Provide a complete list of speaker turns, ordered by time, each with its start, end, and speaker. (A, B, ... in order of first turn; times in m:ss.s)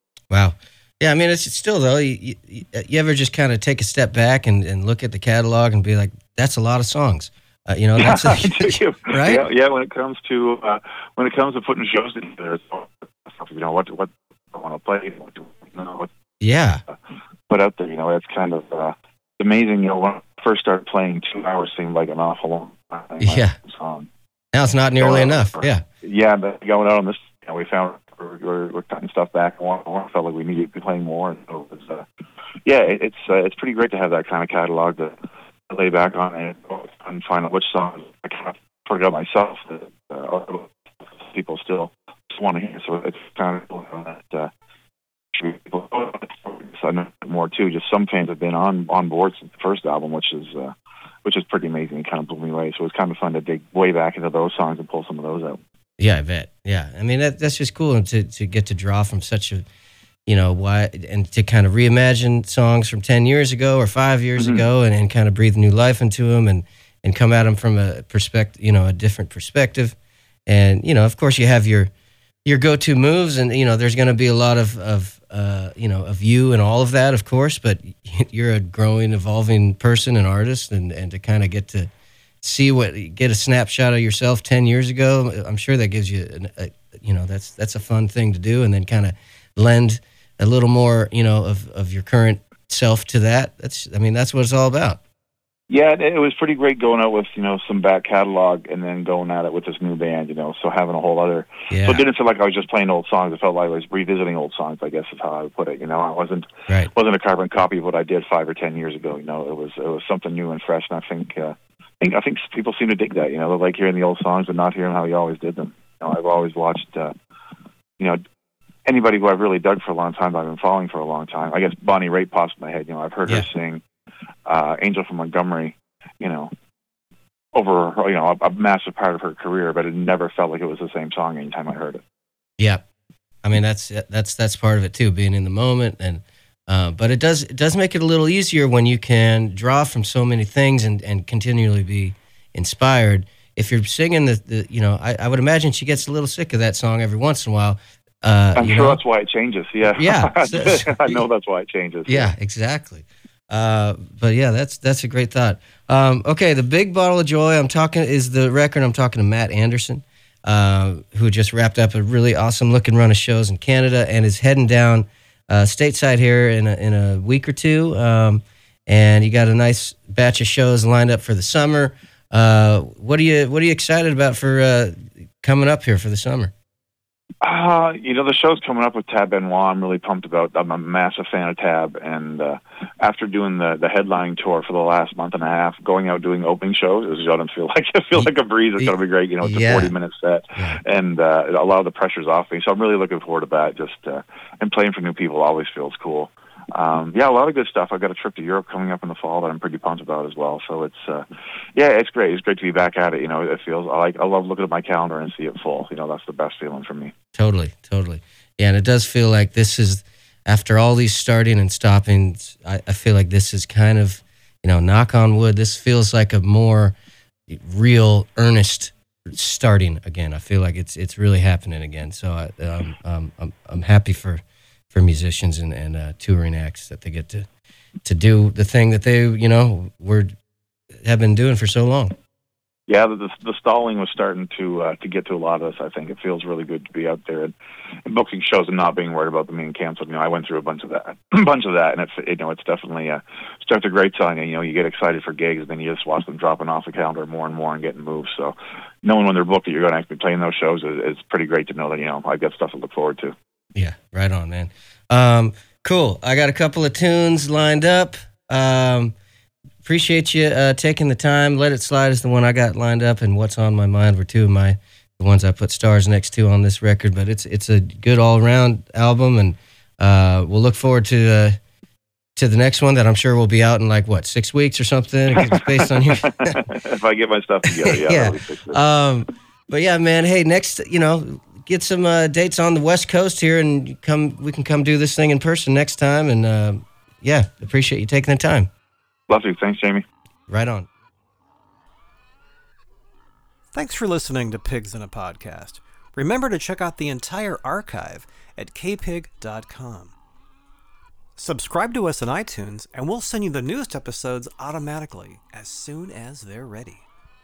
0:00.3-0:09.4 A
0:08.0-0:16.1 B
0:16.4-0:16.8 A
0:17.5-0:24.1 B
0:23.2-0:23.6 A
0:24.5-0:25.8 A
0:25.0-0:32.0 B
0:32.6-0:35.1 B
0:35.7-0:44.5 B
0:45.3-0:55.6 B
0:56.0-0:59.6 A
1:00.2-1:10.0 A
1:04.4-1:04.6 B
1:10.5-1:11.9 A
1:12.4-1:21.9 A
1:22.4-1:35.0 A
1:35.7-1:57.1 B
1:41.7-1:42.0 A
1:58.8-2:03.8 B
2:04.4-2:06.5 B
2:07.5-2:12.0 B
2:13.4-2:29.0 A
2:28.5-2:32.3 B
2:29.8-2:31.2 A
2:32.0-2:56.5 A
2:57.4-3:27.1 B
3:08.2-3:09.9 A
3:10.6-3:10.8 A
3:27.3-3:36.9 A
3:37.5-3:44.4 A
3:44.9-3:47.5 A
3:48.0-3:50.3 A
3:51.0-3:52.1 A
3:52.9-3:57.5 B
3:58.0-4:13.3 B
4:13.7-4:19.1 A
4:19.8-4:31.6 A
4:32.4-4:36.6 A
4:35.4-4:38.8 B
4:37.8-4:48.7 A
4:49.3-4:50.0 B
4:50.5-4:50.9 A
4:53.7-5:00.1 C
5:01.4-5:07.1 C